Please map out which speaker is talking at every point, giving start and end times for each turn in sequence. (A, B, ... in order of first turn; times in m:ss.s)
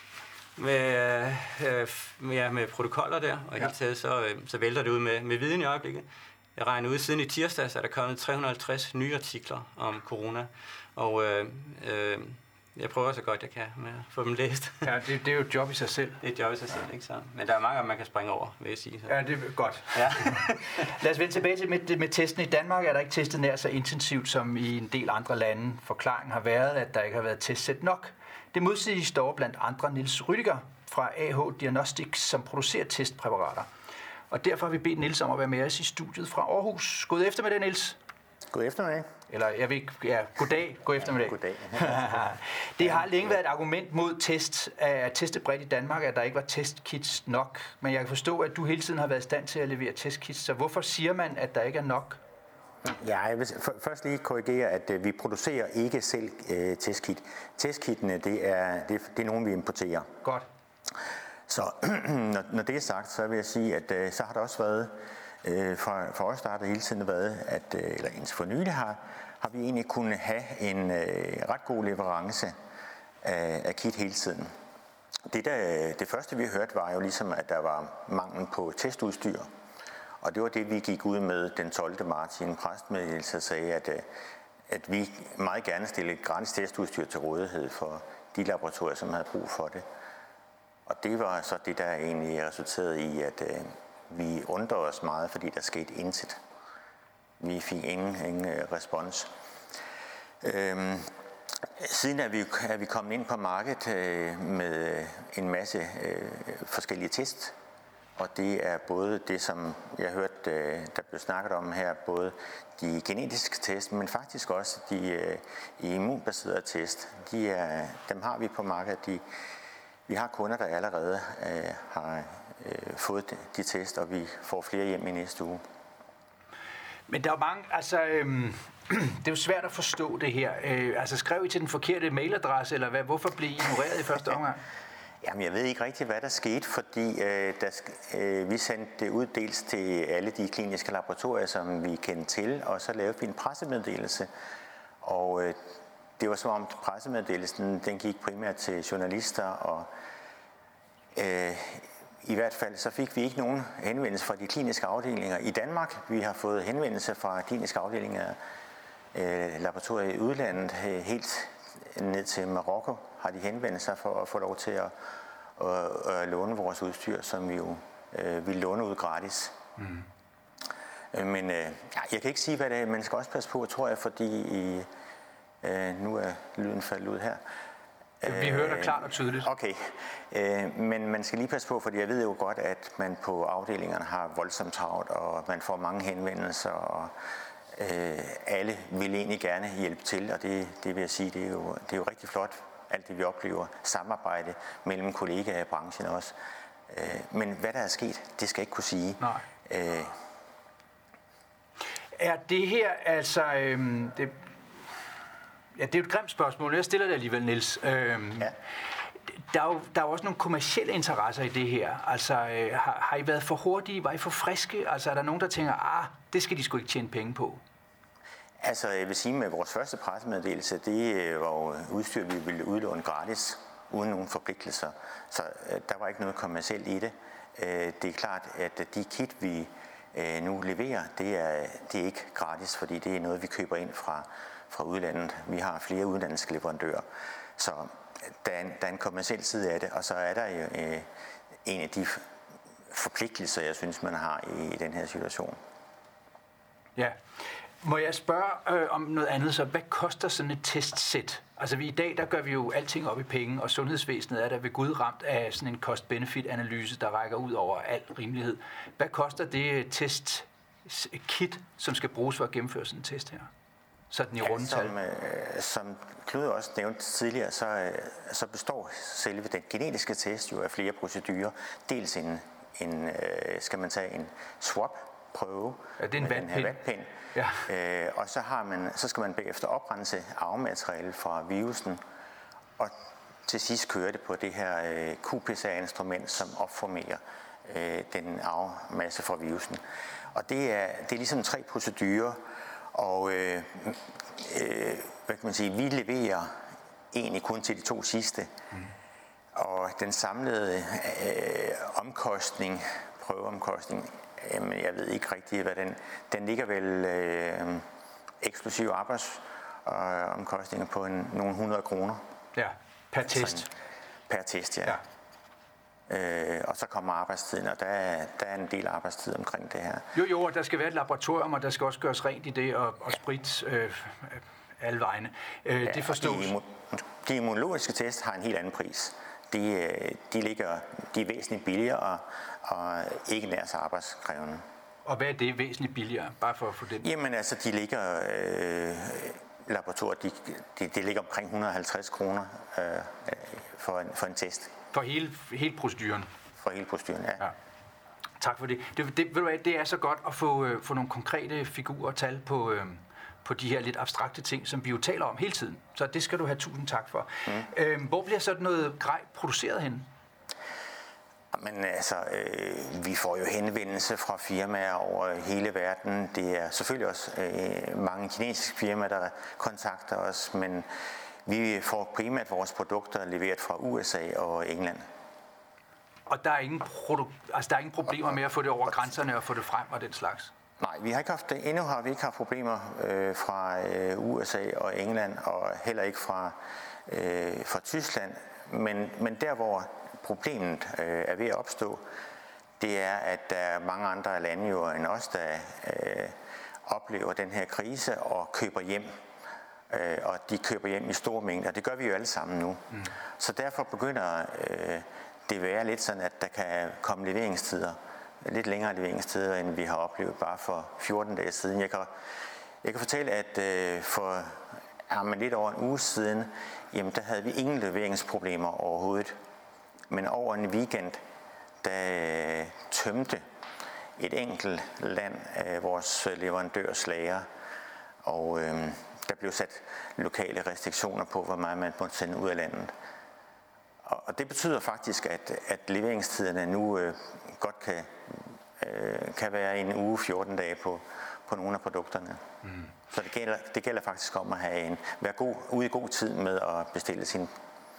0:00.6-0:14.9 A
0:14.8-0:16.2 B
0:16.2-0:19.2 A
0:19.1-0:33.7 B
0:19.9-0:20.9 A
0:34.3-0:38.0 B
0:38.5-0:39.1 C
0:39.3-0:52.2 B
0:41.2-0:42.1 C
0:52.8-1:00.1 C
1:01.5-1:12.6 C
1:13.2-1:14.5 C
1:15.3-1:19.5 C
1:20.2-1:24.1 C
1:24.7-1:29.9 C
1:30.9-1:36.4 C
1:37.4-1:39.3 C
1:40.4-1:41.1 C
1:41.8-1:47.6 C
1:48.2-1:59.2 C
2:00.1-2:05.6 C
2:07.1-2:14.6 B
2:15.2-2:24.3 C
2:25.0-2:25.6 C
2:26.2-2:29.9 C
2:31.2-2:38.4 C
2:39.1-2:44.9 C
2:45.6-2:49.6 C
2:49.8-2:50.1 B
2:51.1-2:54.9 C
2:55.6-2:57.4 C
2:58.2-3:07.1 C
2:58.2-2:59.5 B
3:07.7-3:16.4 C
3:16.9-3:20.2 C
3:22.2-3:24.6 B
3:25.8-3:28.5 B
3:29.3-3:37.6 B
3:38.6-3:57.1 C
3:57.6-4:01.1 C
4:01.6-4:02.2 C
4:02.9-4:05.6 C
4:07.8-4:23.5 B
4:24.1-4:25.0 B
4:24.4-4:37.1 C
4:36.0-4:36.8 B
4:37.3-4:37.6 B
4:37.7-4:42.0 C
4:43.5-4:49.8 C
4:50.3-4:52.4 C
4:52.9-4:56.6 C
4:57.1-4:58.5 C
4:59.6-5:07.9 C
5:08.4-5:12.2 C
5:12.6-5:13.7 B
5:13.3-5:13.7 C
5:14.3-5:15.0 C
5:16.1-5:20.1 C
5:20.1-5:26.6 B
5:25.8-5:34.6 C
5:35.0-5:37.1 B
5:37.0-5:44.7 C
5:44.9-5:46.3 B
5:46.6-5:47.5 C
5:48.4-6:00.1 B
6:01.5-6:10.9 C
6:11.5-6:15.1 C
6:16.3-6:20.5 B
6:20.8-6:32.0 C
6:32.8-6:39.2 C
6:39.9-6:52.1 C
6:52.8-6:59.4 C
7:00.1-7:01.2 C
7:01.8-7:03.4 C
7:04.2-7:07.5 C
7:08.2-7:12.9 C
7:14.0-7:22.4 C
7:22.6-7:22.9 B
7:23.1-7:27.5 C